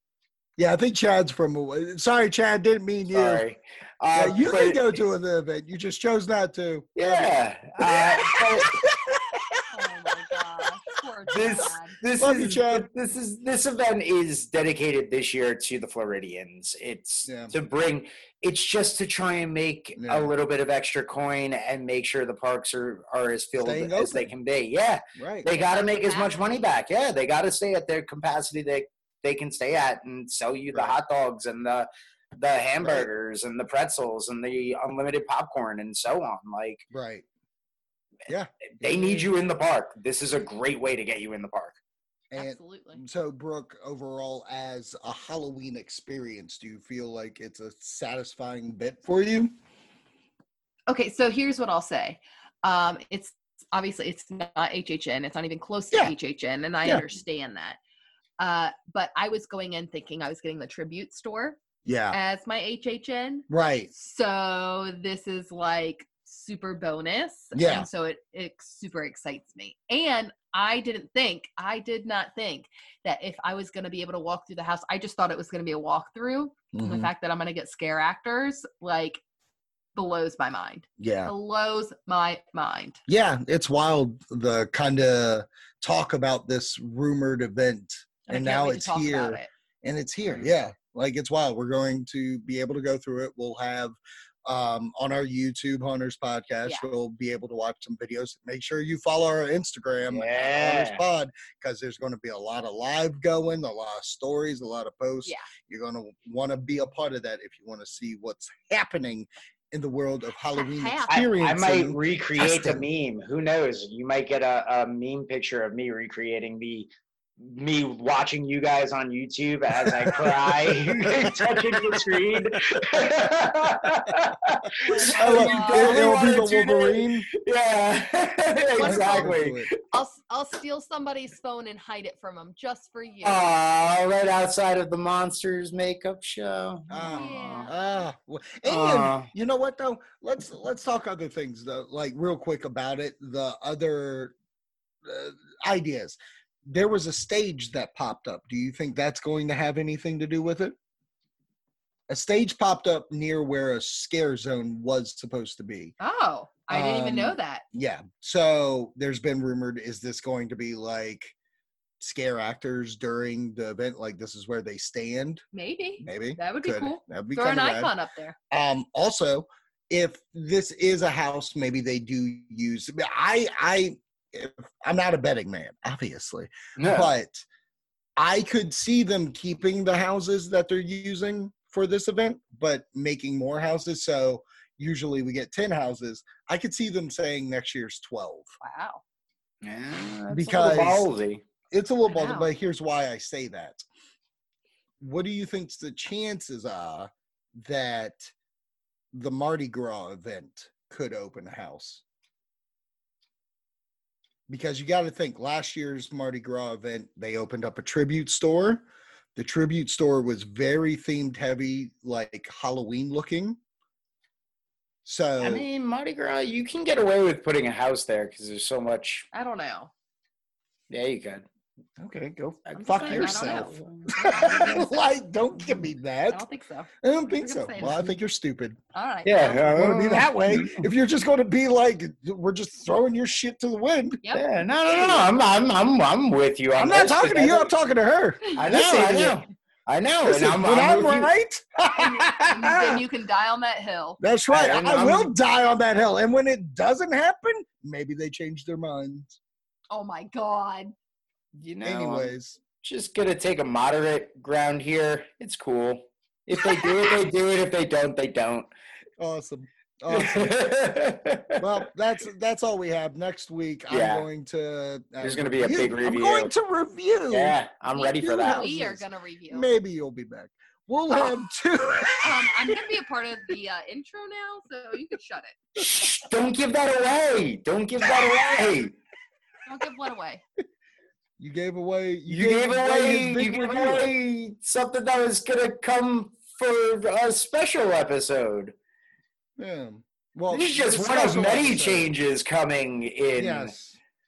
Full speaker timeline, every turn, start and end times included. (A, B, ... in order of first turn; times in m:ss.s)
0:00.6-0:03.4 A
0:03.1-0:04.8 B
0:04.1-0:09.6 A
0:07.0-0:08.8 B
0:09.7-0:12.0 C
0:11.3-0:36.8 B
0:12.2-0:12.9 A
0:17.3-0:17.6 A
0:20.0-0:20.3 A
0:23.6-0:24.3 A
0:25.2-0:25.5 A
0:25.5-0:26.3 C
0:30.7-0:31.0 A
0:32.8-0:33.1 A
0:36.9-0:37.2 A
0:38.3-0:39.3 A
0:38.8-0:41.8 B
0:42.3-0:49.5 A
0:42.4-0:43.0 C
0:50.9-0:57.8 C
0:56.8-0:57.1 A
0:58.4-1:01.6 C
1:01.8-1:02.2 A
1:02.1-1:19.2 C
1:03.5-1:03.9 A
1:07.5-1:07.9 A
1:16.7-1:17.1 A
1:20.0-1:23.0 C
1:21.0-1:21.3 A
1:23.1-1:52.8 A
1:28.3-1:29.5 C
1:40.1-1:41.0 B
1:50.5-1:51.2 C
1:51.1-1:56.9 B
1:57.4-2:09.7 B
1:59.8-2:03.1 A
2:04.8-2:06.1 C
2:05.2-2:07.3 A
2:08.8-2:09.4 C
2:08.8-2:09.7 A
2:09.9-2:13.4 C
2:13.2-2:17.7 B
2:16.9-2:24.4 A
2:17.0-2:17.8 C
2:18.6-2:19.3 B
2:25.0-2:30.8 A
2:32.1-2:35.9 A
2:36.0-2:37.6 C
2:36.7-2:41.4 A
2:42.0-2:45.4 A
2:45.5-2:48.4 C
2:46.0-2:47.9 A
2:48.5-2:57.4 A
2:56.8-2:57.1 B
2:58.2-3:08.5 A
3:08.6-3:09.0 C
3:09.6-3:11.4 B
3:10.3-3:11.1 A
3:11.7-3:13.8 A
3:12.1-3:12.5 C
3:15.0-3:18.3 A
3:19.1-3:22.0 A
3:24.5-3:33.6 A
3:35.0-3:35.6 A
3:35.4-3:39.3 B
3:39.3-3:39.9 C
3:40.9-3:41.4 B
3:42.0-3:46.5 A
3:42.7-3:44.9 B
3:42.8-3:44.9 C
3:46.3-3:48.1 C
3:47.0-3:48.8 A
3:48.9-3:49.7 C
3:49.2-3:50.8 B
3:49.6-3:54.2 A
3:54.3-3:57.7 B
3:54.9-3:55.3 A
3:56.7-3:59.4 A
3:58.6-4:01.3 B
4:00.2-4:03.0 A
4:01.8-4:04.2 C
4:04.2-4:09.4 A
4:04.5-4:05.3 B
4:09.9-4:10.9 C
4:11.6-4:18.7 B
4:11.8-4:12.6 A
4:16.7-4:17.0 C
4:19.2-4:20.5 A
4:20.1-4:21.8 B
4:21.6-4:27.6 A
4:23.9-4:24.3 B
4:25.2-4:26.5 B
4:27.3-4:28.7 B
4:27.9-4:29.7 C
4:28.2-4:32.7 A
4:32.2-4:35.6 C
4:35.8-4:38.9 B
4:39.6-4:40.4 C
4:41.4-4:44.1 A
4:42.3-4:48.8 B
4:49.6-4:52.1 A
4:50.5-4:53.7 B
4:53.4-4:54.0 A